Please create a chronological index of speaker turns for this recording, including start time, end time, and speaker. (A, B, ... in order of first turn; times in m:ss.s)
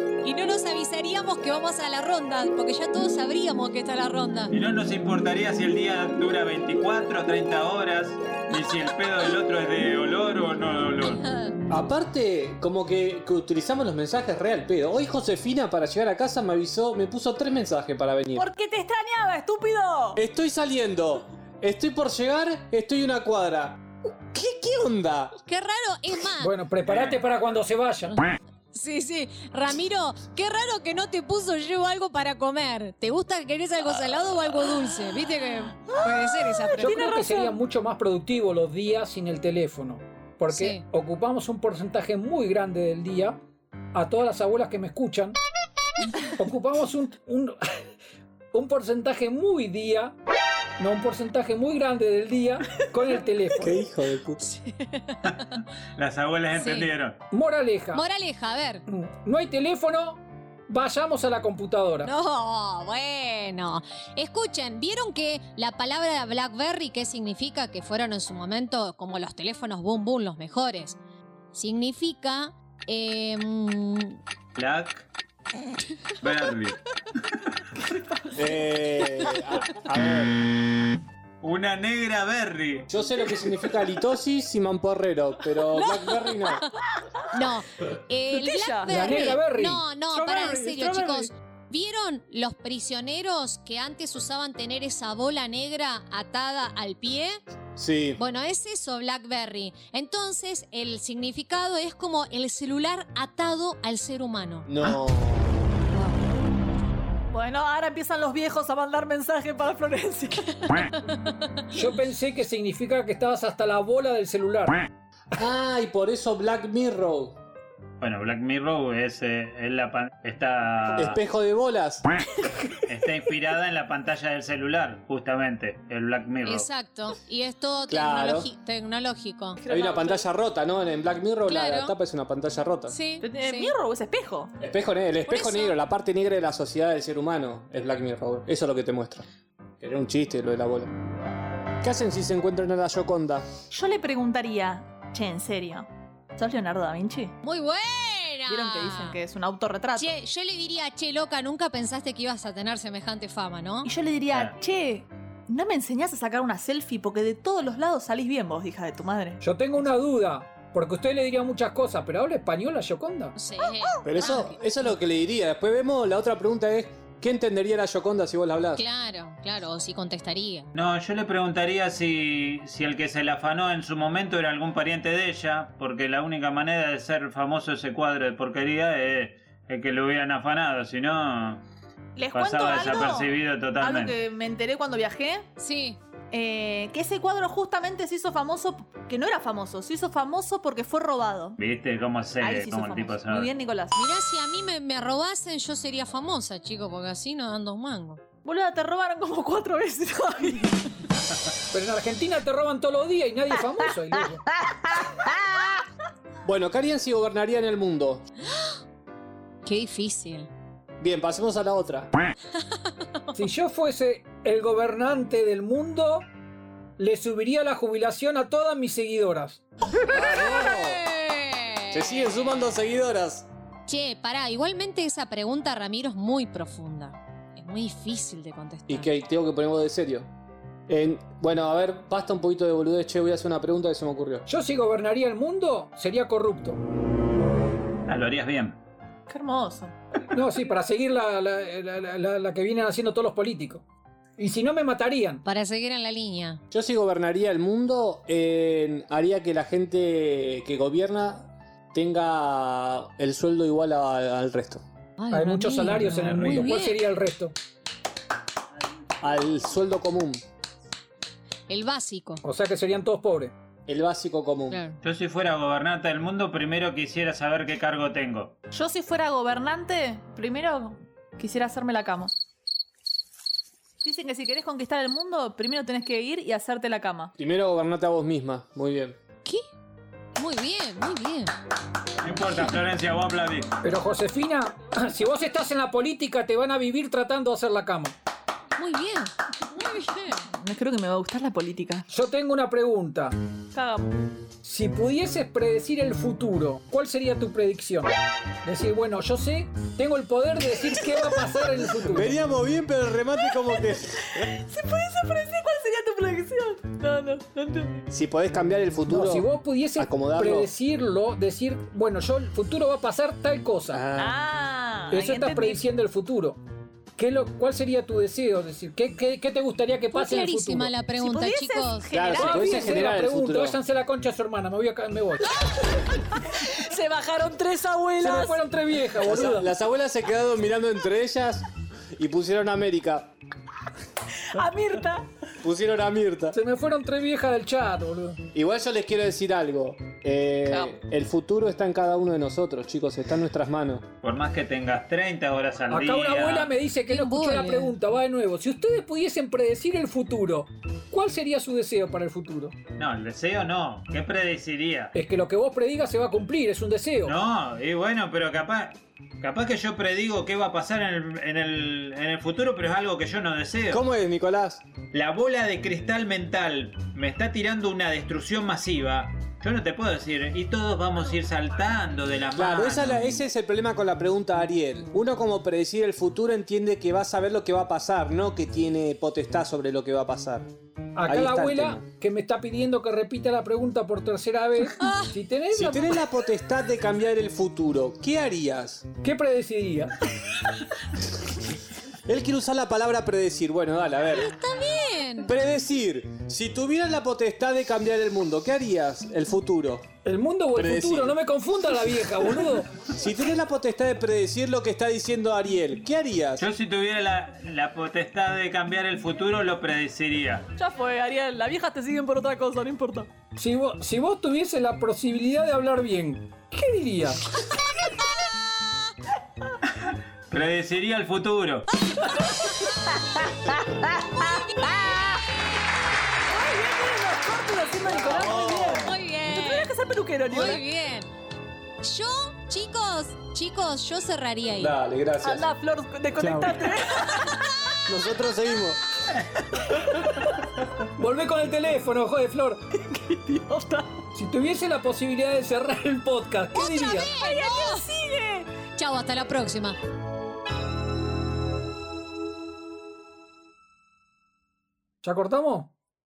0:00.2-0:04.5 A
0:04.5-0:11.2 B
0:11.2-0:11.5 A
0:11.7-0:18.5 C
0:18.3-0:20.2 D
0:20.1-0:25.3 C
0:25.4-0:26.5 A
0:26.4-0:28.2 E
0:26.8-0:27.2 B
0:28.7-0:37.0 A
0:35.9-0:37.6 D
0:36.8-0:43.4 E
0:40.5-0:40.8 A
0:43.9-0:45.4 E
0:46.4-0:47.6 E
0:48.5-0:50.2 E
0:50.8-0:53.8 E
0:53.6-0:54.4 C
0:54.4-0:55.6 A
0:56.0-0:57.2 B
0:56.5-0:56.9 A
0:57.3-0:58.0 E
0:57.9-0:58.8 A
0:58.9-1:02.1 E
1:02.0-1:11.0 A
1:11.5-1:14.2 A
1:14.6-1:15.1 B
1:16.2-1:17.5 B
1:17.9-1:18.4 D
1:18.3-1:20.4 C
1:21.4-1:22.9 B
1:22.9-1:26.7 C
1:25.7-1:26.7 D
1:27.3-1:37.4 A
1:28.3-1:29.4 D
1:28.9-1:29.8 E
1:30.1-1:31.3 D
1:37.8-1:38.2 C
1:38.2-1:44.7 A
1:44.6-1:45.7 C
1:47.3-1:50.8 D
1:51.0-1:51.6 A
1:51.7-1:54.8 E
1:55.4-1:57.4 C
1:58.0-2:01.2 B
2:00.9-2:02.1 C
2:02.9-2:06.7 B
2:06.4-2:09.6 A
2:07.9-2:08.5 C
2:09.6-2:10.3 D
2:09.7-2:12.9 C
2:11.4-2:12.0 A
2:12.9-2:13.8 A
2:13.2-2:14.5 D
2:14.6-2:19.2 C
2:15.3-2:15.8 A
2:19.8-2:20.9 C
2:21.8-2:23.5 C
2:23.7-2:27.4 D
2:27.4-2:29.2 A
2:28.5-2:30.1 D
2:29.9-2:33.9 A
2:33.8-2:39.4 D
2:39.4-2:43.3 E
2:43.3-2:44.6 A
2:44.0-2:48.8 C
2:48.8-2:50.7 A
2:50.7-3:01.6 B
3:02.2-3:05.5 D
3:02.3-3:04.2 B
3:05.6-3:06.0 A
3:06.3-3:11.6 D
3:11.6-3:13.5 B
3:12.4-3:14.1 D
3:13.9-3:18.2 A
3:18.4-3:21.0 D
3:21.7-3:24.4 E
3:25.2-3:25.7 D
3:26.4-3:28.2 C
3:29.6-3:30.5 A
3:31.0-3:32.1 C
3:32.8-3:33.4 A
3:33.3-3:36.3 E
3:37.0-3:39.6 E
3:40.0-3:41.0 C
3:40.1-3:42.4 A
3:41.9-3:43.5 C
3:43.9-3:49.1 A
3:48.9-3:50.3 C
3:50.9-3:54.4 C
3:54.5-3:56.8 E
3:58.1-3:58.8 B
3:59.3-4:00.0 D
4:00.3-4:03.8 E
4:04.4-4:05.4 E
4:05.4-4:06.6 A
4:06.7-4:14.8 C
4:15.2-4:17.0 A
4:15.3-4:17.5 E
4:16.1-4:16.7 B
4:19.2-4:20.4 C
4:21.7-4:22.4 A
4:22.4-4:23.5 E
4:23.9-4:24.8 C
4:24.7-4:25.0 A
4:25.0-4:28.5 B
4:28.7-4:32.4 D
4:34.0-4:37.3 D
4:37.4-4:39.2 C
4:40.4-4:41.5 A
4:42.2-4:43.7 B
4:43.8-4:48.2 E
4:48.8-4:50.4 A
4:50.5-4:52.1 D
4:52.1-4:53.4 E
4:53.7-4:54.1 D
4:54.6-4:58.1 E
4:58.6-5:02.4 E
5:02.0-5:04.5 C
5:04.3-5:08.0 D
5:08.1-5:10.7 C
5:09.1-5:14.0 E
5:13.9-5:14.4 C
5:14.2-5:15.8 D
5:15.1-5:16.6 E
5:17.2-5:20.9 E
5:20.1-5:22.1 A
5:21.2-5:23.1 D
5:22.1-5:23.8 C
5:22.3-5:25.6 E
5:25.6-5:28.6 D
5:28.2-5:29.7 E
5:29.2-5:33.3 C
5:34.3-5:35.2 D
5:35.6-5:36.6 C
5:36.5-5:38.4 E
5:38.5-5:44.1 C
5:40.7-5:40.9 D
5:44.2-5:46.7 B
5:45.9-5:52.8 E
5:47.1-5:47.9 A
5:53.0-5:55.1 B
5:55.1-5:57.3 E
5:57.2-6:04.0 B
6:03.9-6:04.8 C
6:05.1-6:13.4 B
6:12.5-6:20.7 C
6:21.2-6:26.2 E
6:21.2-6:22.0 C
6:25.0-6:25.3 A
6:25.7-6:29.0 C
6:29.2-6:30.2 E
6:32.2-6:34.5 C
6:34.3-6:35.5 A
6:35.4-6:40.1 C
6:40.2-6:42.9 E
6:40.7-6:41.4 C
6:43.0-6:46.7 C
6:46.6-6:50.7 B
6:50.8-6:53.3 D
6:53.6-6:57.4 E
6:59.9-7:01.9 B
7:02.0-7:03.5 A
7:02.4-7:02.6 D
7:04.1-7:05.4 A
7:06.5-7:10.8 D
7:08.1-7:09.1 C
7:09.0-7:09.9 A
7:10.5-7:11.3 A
7:12.0-7:15.0 A
7:14.8-7:15.7 C
7:15.4-7:17.6 D
7:16.4-7:16.7 C
7:17.3-7:18.0 A
7:18.0-7:19.0 C
7:21.2-7:22.9 E
7:22.9-7:24.2 D
7:24.3-7:27.3 E
7:26.7-7:28.0 A
7:27.2-7:28.7 D
7:28.9-7:30.0 A
7:35.2-7:35.9 E